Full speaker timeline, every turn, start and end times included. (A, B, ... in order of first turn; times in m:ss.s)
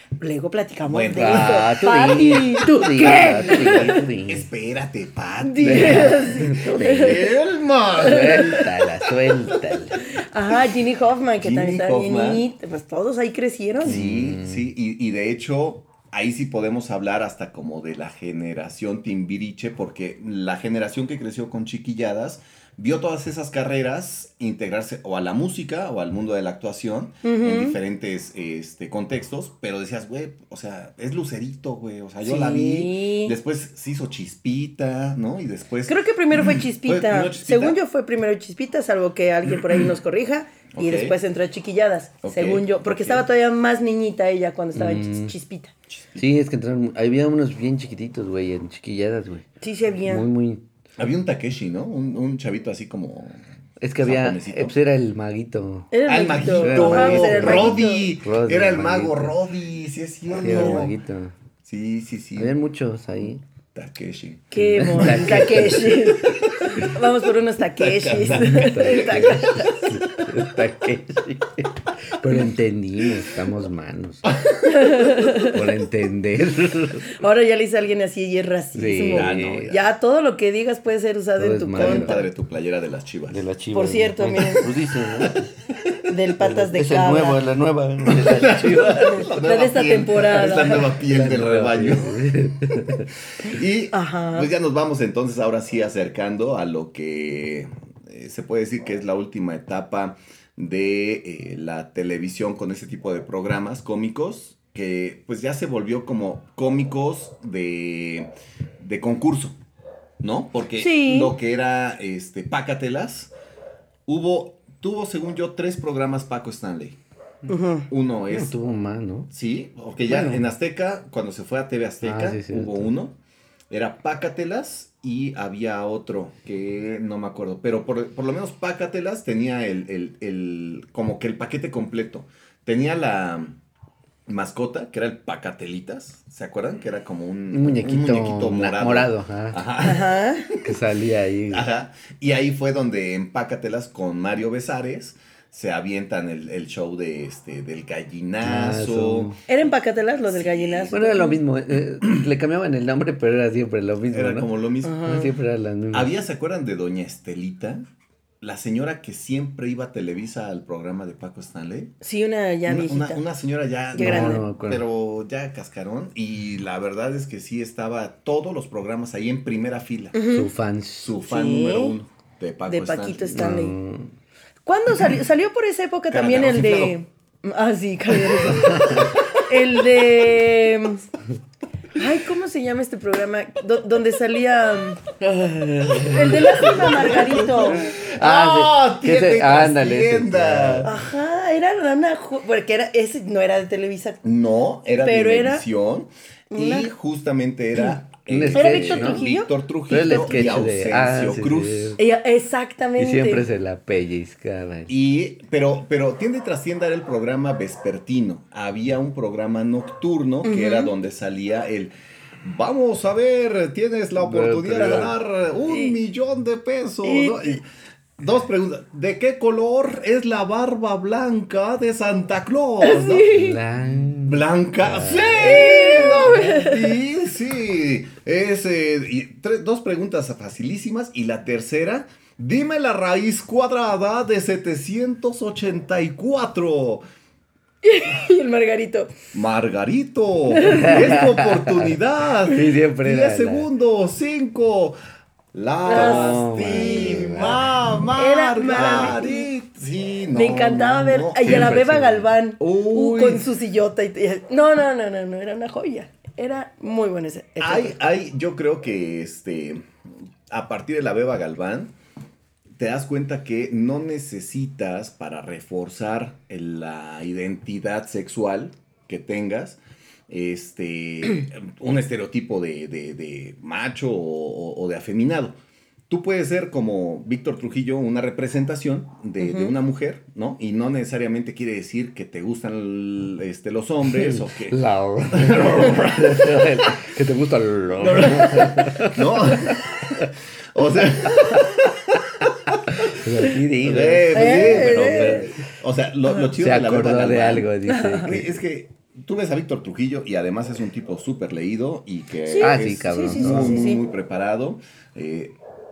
0:00.2-0:04.1 A
0:00.9-0:01.7 B
0:01.2-0:04.5 C
0:03.0-0:08.7 B
0:05.4-0:07.4 A
0:05.6-0:07.3 C
0:08.0-0:08.8 A
0:08.0-0:10.0 C
0:10.2-0:14.0 A
0:11.4-0:12.4 B
0:13.8-0:37.8 B
0:13.8-0:14.6 C
0:27.2-0:27.8 A
0:32.2-0:33.4 A
0:35.9-0:45.7 A
0:40.7-0:41.2 B
0:42.2-0:43.2 B
0:44.8-0:45.3 C
0:45.9-0:46.2 B
0:46.2-0:49.5 C
0:49.6-0:50.3 A
0:50.1-0:50.6 C
0:51.0-0:53.5 B
0:53.8-0:55.9 C
0:54.0-0:54.8 B
0:55.9-0:58.1 A
0:56.1-1:00.9 B
0:56.6-0:59.4 C
1:00.4-1:01.4 C
1:00.4-1:00.9 A
1:01.6-1:02.6 B
1:02.4-1:03.4 C
1:03.8-1:07.0 B
1:04.5-1:10.0 A
1:04.6-1:06.1 C
1:07.8-1:10.2 B
1:08.3-1:14.4 C
1:14.3-1:15.1 B
1:14.6-1:15.6 A
1:15.3-1:17.1 C
1:17.1-1:22.2 A
1:18.8-1:19.8 C
1:19.1-1:19.7 B
1:21.4-1:22.2 C
1:21.8-1:23.4 B
1:23.3-1:25.5 C
1:23.7-1:24.7 A
1:25.2-1:25.9 B
1:26.1-1:27.4 A
1:26.4-1:29.3 C
1:28.1-1:48.3 B
1:29.0-1:31.0 A
1:30.9-1:33.1 C
1:33.9-1:34.5 A
1:48.8-1:49.6 B
1:50.2-1:53.3 B
1:50.8-1:51.4 A
1:54.1-1:57.0 B
1:57.5-1:57.9 A
1:57.9-1:58.6 B
1:58.3-1:59.3 C
1:59.3-2:03.2 B
2:00.1-2:00.4 C
2:02.0-2:02.9 C
2:03.7-2:13.6 B
2:14.3-2:20.8 B
2:17.5-2:19.6 C
2:19.8-2:20.5 A
2:20.6-2:21.7 C
2:21.5-2:29.4 B
2:28.4-2:29.4 C
2:29.5-2:31.4 A
2:30.3-2:31.4 B
2:30.9-2:34.5 C
2:34.1-2:35.0 B
2:34.8-2:35.4 A
2:35.0-2:36.2 C
2:35.9-2:37.8 B
2:38.4-2:41.9 B
2:42.0-2:43.2 A
2:42.7-2:50.2 B
2:43.9-2:44.4 A
2:44.0-2:44.8 C
2:50.1-2:50.5 A
2:50.3-2:51.2 C
2:51.0-2:53.5 B
2:51.3-2:52.0 A
2:52.7-2:53.8 A
2:53.3-2:54.1 C
2:54.7-3:01.0 A
2:56.1-2:57.0 B
2:58.6-2:59.2 C
2:58.6-2:59.2 B
3:02.0-3:07.9 A
3:05.4-3:07.1 C
3:06.0-3:11.0 B
3:07.8-3:10.9 C
3:10.8-3:14.2 A
3:14.2-3:22.0 B
3:15.0-3:15.7 A
3:16.5-3:16.9 A
3:18.3-3:19.3 C
3:18.5-3:20.5 A
3:19.9-3:22.0 C
3:22.0-3:23.5 A
3:23.0-3:24.9 C
3:24.9-3:31.9 B
3:30.4-3:30.9 A
3:32.4-3:37.7 B
3:34.2-3:35.1 C
3:34.8-3:35.1 A
3:35.7-3:36.0 A
3:37.0-3:37.6 A
3:38.2-3:43.3 B
3:42.8-3:43.6 A
3:43.3-3:45.8 C
3:44.2-3:57.0 B
3:45.4-3:47.0 A
3:57.8-3:59.1 A
3:59.3-4:05.0 B
4:00.5-4:01.2 A
4:00.7-4:03.7 C
4:05.5-4:11.8 B
4:05.9-4:07.6 A
4:05.9-4:07.7 C
4:08.2-4:09.5 A
4:10.3-4:18.0 A
4:11.4-4:12.3 C
4:12.6-4:13.4 B
4:17.6-4:19.9 B
4:20.5-4:21.9 B
4:22.8-4:35.6 B
4:36.1-4:44.8 B
4:39.4-4:39.7 A
4:44.1-4:50.3 C
4:45.3-4:46.9 B
4:48.0-4:50.2 B
4:50.7-4:53.2 B
4:51.2-4:51.9 C
4:52.9-4:55.5 C
4:53.8-4:57.7 B
4:54.3-4:55.5 A
4:56.6-4:58.6 C
4:57.9-4:58.4 A
4:58.2-5:05.6 B
5:02.5-5:04.0 A
5:02.6-5:03.9 C